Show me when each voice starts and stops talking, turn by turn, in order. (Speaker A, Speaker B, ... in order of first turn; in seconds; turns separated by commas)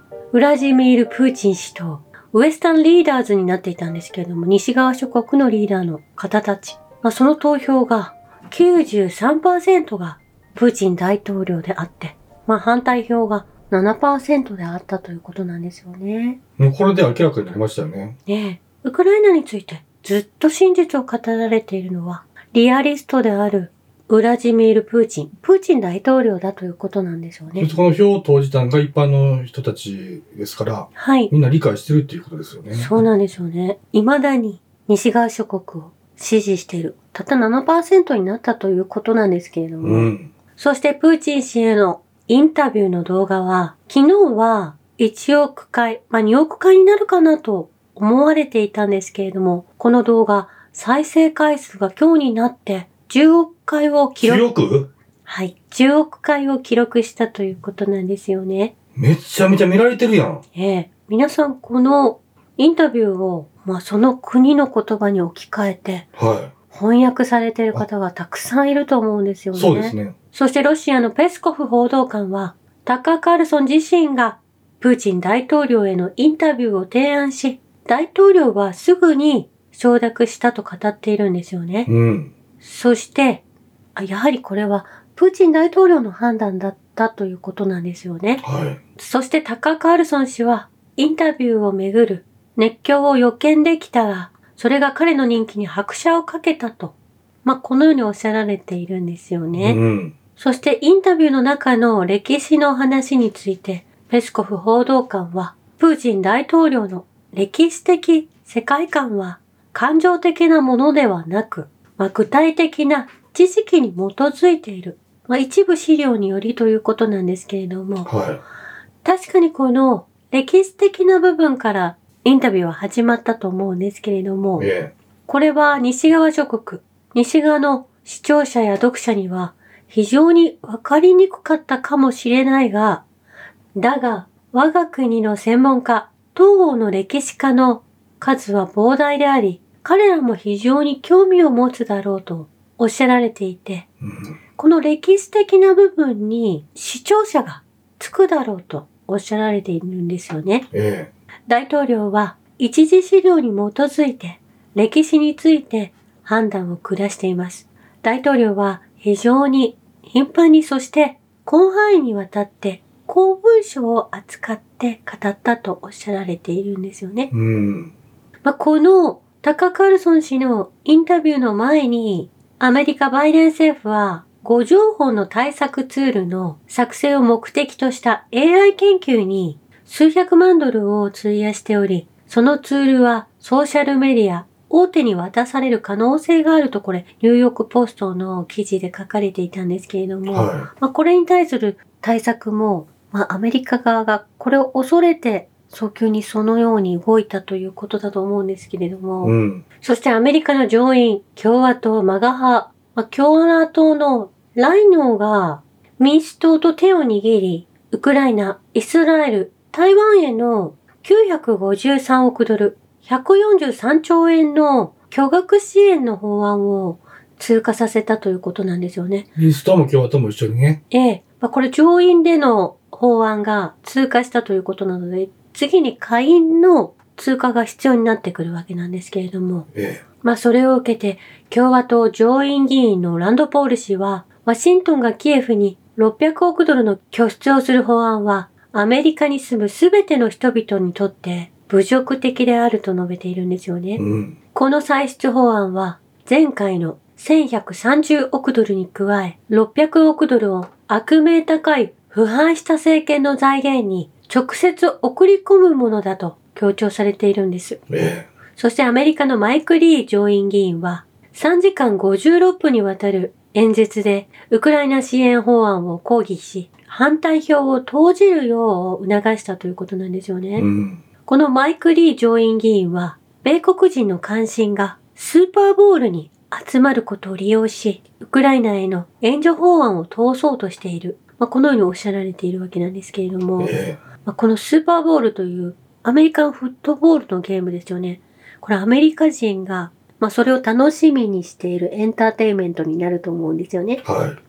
Speaker A: 0.3-16.4, Speaker B: 16.6-18.2, Speaker A: 18.3-27.7, Speaker B: 27.6-33.0, Speaker A: 30.9-31.3, Speaker A: 32.7-54.4, Speaker B: 39.8-40.3, Speaker B: 54.2-54.9, Speaker A: 55.2-58.7, Speaker B: 59.0-60.4, Speaker A: 60.5-66.1, Speaker B: 66.2-66.5, Speaker A: 66.7-81.9, Speaker B: 69.5-70.1, Speaker B: 81.8-82.3, Speaker A: 82.6-83.4, Speaker A: 83.9-88.4, Speaker B: 88.4-88.8, Speaker A: 89.0-99.8, Speaker B: 99.5-100.1, Speaker A: 100.4-118.1, Speaker B: 118.0-118.4, Speaker A: 119.0-124.7, Speaker B: 124.6-124.9, Speaker A: 125.3-133.0, Speaker A: 133.7-143.8, Speaker B: 144.0-144.3, Speaker A: 144.6-150.7, Speaker B: 150.7-151.1, Speaker A: 151.5-167.3, Speaker B: 167.3-167.9, Speaker A: 168.4-219.3, Speaker B: 190.3-190.7, Speaker B: 199.2-199.6, Speaker B: 219.4-220.8, Speaker A: 220.9-229.7, Speaker B: 229.7-230.0, Speaker A: 230.2-244.0, Speaker B: 244.0-244.3, Speaker A: 244.5-257.8, Speaker B: 257.9-258.3, Speaker A: 258.5-270.7, Speaker B: 270.6-271.0, Speaker A: 271.2-283.7, Speaker B: 283.6-284.0, Speaker A: 284.2-294.0, Speaker B: 294.0-294.4